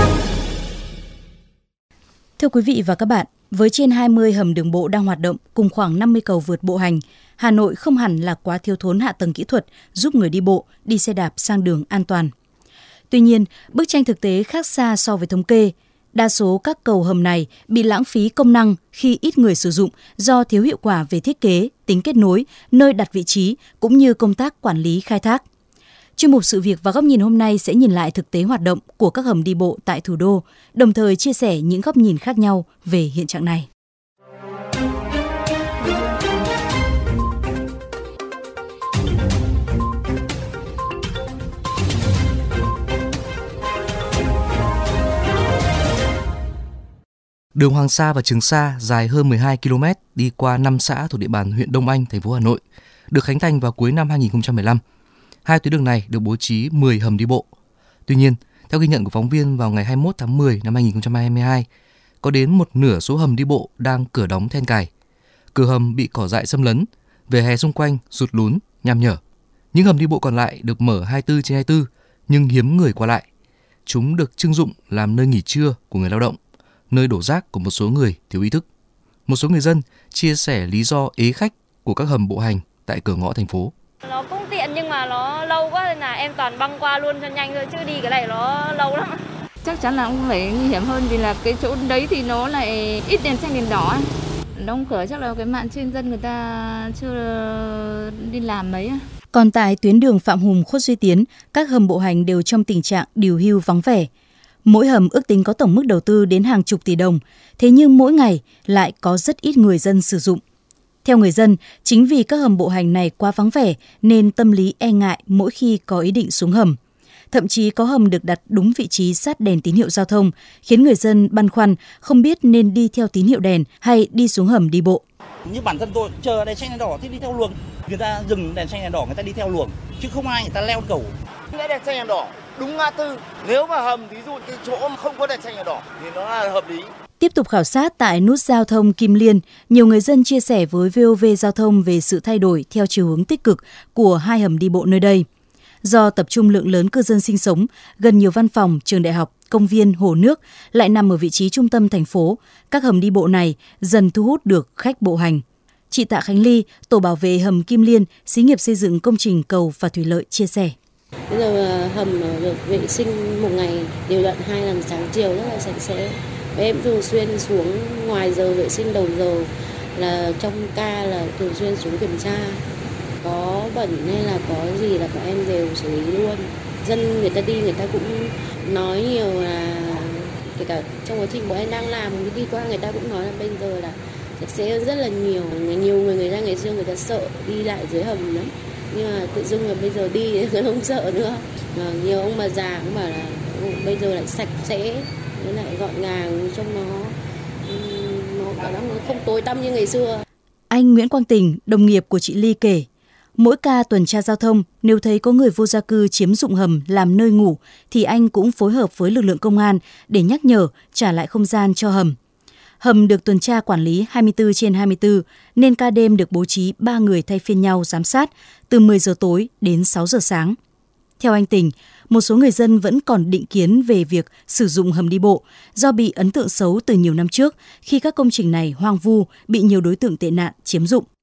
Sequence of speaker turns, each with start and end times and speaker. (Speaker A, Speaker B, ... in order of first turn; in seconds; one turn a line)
Speaker A: 2.4-12.3
Speaker A: 13.1-25.4
Speaker A: 26.2-33.7
Speaker B: 47.6-54.8
Speaker B: 55.5-57.5
Speaker B: 58.1-61.7
Speaker B: 62.2-64.9
Speaker B: 65.5-69.2
Speaker B: 69.7-73.2
Speaker B: 73.9-76.4
Speaker B: 76.9-78.7
Speaker B: 79.3-83.7
Speaker C: 84.0-89.2
Speaker D: 89.6-99.0
Speaker A: 99.3-104.1
Speaker A: 104.7-110.4
Speaker A: 111.0-116.8
Speaker A: 117.3-125.0
Speaker E: 125.5-131.2
Speaker F: 131.5-136.9
Speaker A: 137.2-145.2
Speaker A: 145.8-160.8
Speaker G: 161.3-172.6
Speaker G: 173.2-200.2
Speaker A: 200.7-212.2
Speaker A: 212.8-220.6
Speaker A: 221.2-231.1